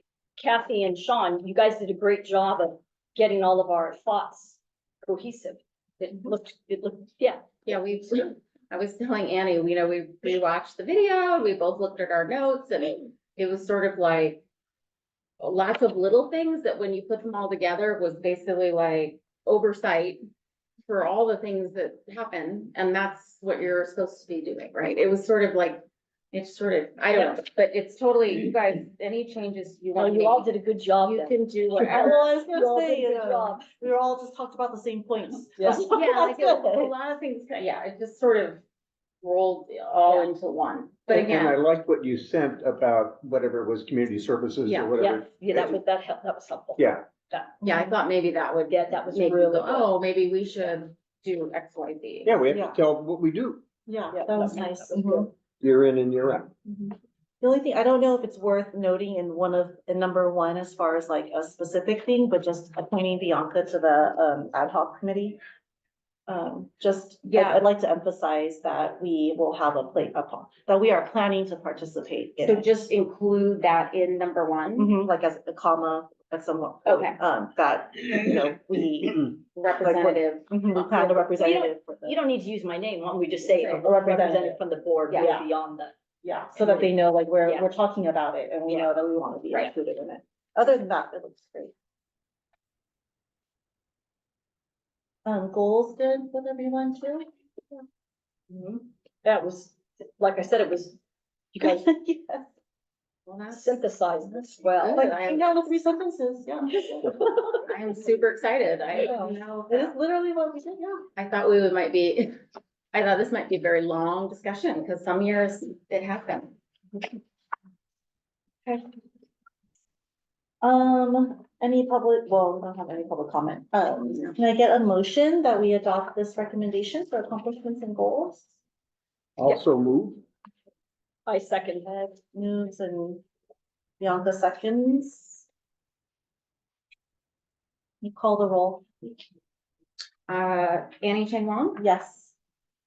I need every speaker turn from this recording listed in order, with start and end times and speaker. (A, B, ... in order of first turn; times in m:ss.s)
0:00.4-0:07.4 A
0:07.6-0:14.4 B
0:15.4-0:20.2 B
0:20.9-0:30.5 B
0:27.1-0:27.4 A
0:30.0-0:33.6 A
0:31.0-0:32.2 B
0:31.8-0:36.9 C
0:35.6-0:35.9 A
0:35.9-0:38.6 B
0:39.2-0:41.6 B
0:40.1-0:40.3 A
0:41.1-0:45.8 D
0:44.6-0:45.0 B
0:45.0-0:47.5 A
0:46.8-0:47.1 D
0:47.6-0:47.9 C
0:47.6-0:52.4 B
0:48.7-0:49.9 A
0:52.2-0:53.6 D
0:52.5-0:52.8 C
0:53.9-0:55.3 C
0:54.1-0:55.3 A
0:55.6-0:56.5 D
0:56.7-1:05.4 C
1:06.3-1:12.7 C
1:07.3-1:07.7 B
1:12.4-1:14.9 B
1:14.8-1:22.2 C
1:16.8-1:17.2 B
1:19.6-1:20.5 B
1:20.8-1:25.9 A
1:23.6-1:24.6 C
1:25.1-1:25.4 B
1:25.2-1:25.4 C
1:26.2-1:31.7 C
1:26.6-1:26.9 A
1:35.2-1:37.3 C
1:38.5-1:41.0 A
1:41.5-1:41.9 A
1:41.6-1:42.5 C
1:43.3-1:43.8 B
1:43.5-1:45.1 A
1:44.7-1:45.6 B
1:45.0-1:47.3 C
1:47.6-1:50.0 B
1:49.0-1:51.1 C
1:51.2-1:52.4 B
1:52.9-1:56.6 B
2:00.6-2:08.5 C
2:09.4-2:10.2 D
2:11.3-2:11.9 A
2:11.9-2:13.2 C
2:14.0-2:15.5 C
2:18.0-2:19.1 C
2:20.3-2:21.8 B
2:21.8-2:22.3 C